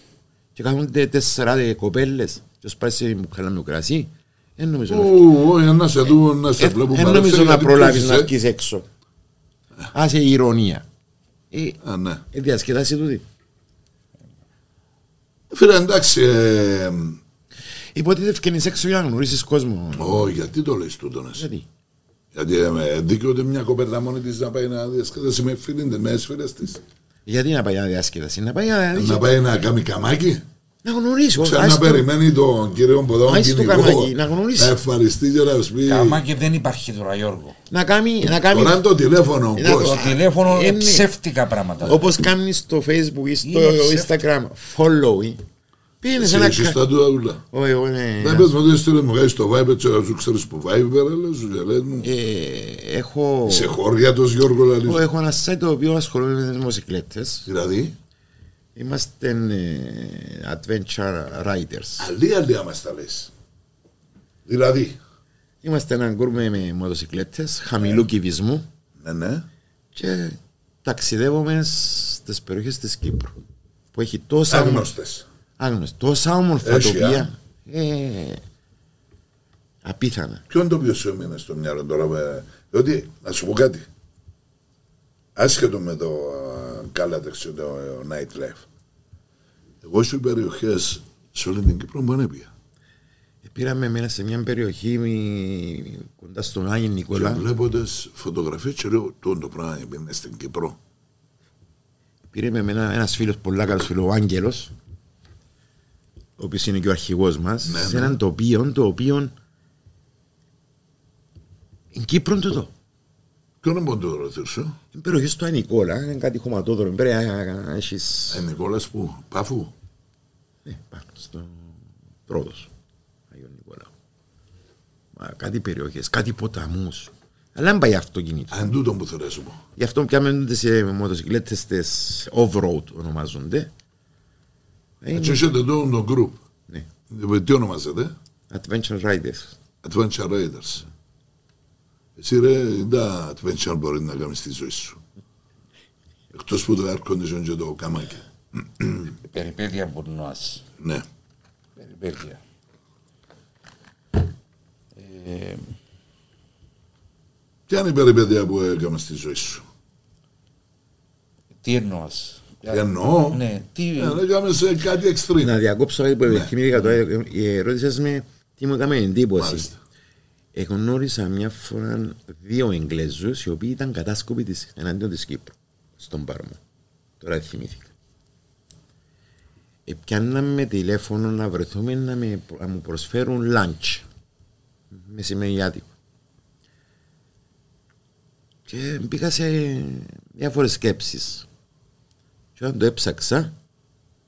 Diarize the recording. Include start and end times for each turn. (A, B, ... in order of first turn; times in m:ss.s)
0:00.5-0:05.3 A
0:04.9-0:08.3 B
0:06.6-0:08.8 A
0:09.9-0:10.8 A
0:11.5-0:11.8 A
0:11.8-0:12.2 B
0:12.3-0:13.2 A
0:15.5-0:17.2 B
0:17.9-0:20.3 A
0:20.0-0:21.5 B
0:21.3-0:21.6 A
0:22.3-0:26.8 B
0:27.2-0:29.3 A
0:28.9-0:30.4 B
0:30.8-0:32.1 A
0:31.4-0:36.2 B
0:33.2-0:34.8 A
0:35.8-0:37.6 C
0:37.7-0:38.8 A
0:38.5-0:40.1 B
0:39.5-0:41.1 A
0:39.8-0:42.1 C
0:41.8-0:45.4 A
0:43.4-0:44.1 C
0:46.0-0:46.8 A
0:46.2-0:47.4 B
0:47.5-0:48.5 A
0:48.2-0:52.1 B
0:52.0-0:53.8 A
0:53.4-0:55.0 B
0:54.8-0:57.5 A
0:57.4-0:58.0 B
0:58.8-1:02.1 A
1:02.0-1:03.3 B
1:04.4-1:05.0 B
1:05.6-1:08.6 A
1:09.0-1:09.5 B
1:09.9-1:13.3 A
1:13.9-1:14.9 A
1:14.5-1:15.2 B
1:15.6-1:18.4 A
1:16.6-1:17.3 B
1:19.8-1:20.4 A
1:20.5-1:23.8 B
1:25.3-1:28.6 B
1:29.8-1:32.5 B
1:33.4-1:37.4 A
1:37.1-1:40.8 B
1:42.3-1:44.7 A
1:46.4-1:49.3 A
1:47.6-1:48.2 B
1:51.9-1:52.7 A
1:53.6-1:54.8 B
1:54.9-1:58.4 A
1:58.3-1:59.7 B
2:00.6-2:02.7 A
2:03.3-2:03.9 A
2:05.1-2:08.7 A
2:08.5-2:09.6 B
2:09.8-2:13.7 A
2:15.0-2:15.4 A
2:15.1-2:16.4 B
2:17.1-2:18.1 B
2:18.5-2:19.6 A
2:19.8-2:20.8 B
2:22.2-2:25.0 B
2:26.3-2:29.1 B
2:29.2-2:30.6 C
2:30.8-2:31.0 B
2:31.8-2:32.4 C
2:35.0-2:35.6 C
2:37.7-2:39.6 B
2:41.6-2:44.2 C
2:42.7-2:43.4 B
2:44.0-2:45.5 B
2:45.4-2:49.7 A
2:49.4-2:49.8 B
2:50.5-2:56.6 A
2:57.2-2:57.9 A
2:59.8-3:04.0 A
3:04.9-3:05.9 A
3:08.7-3:11.5 A
3:12.6-3:13.5 A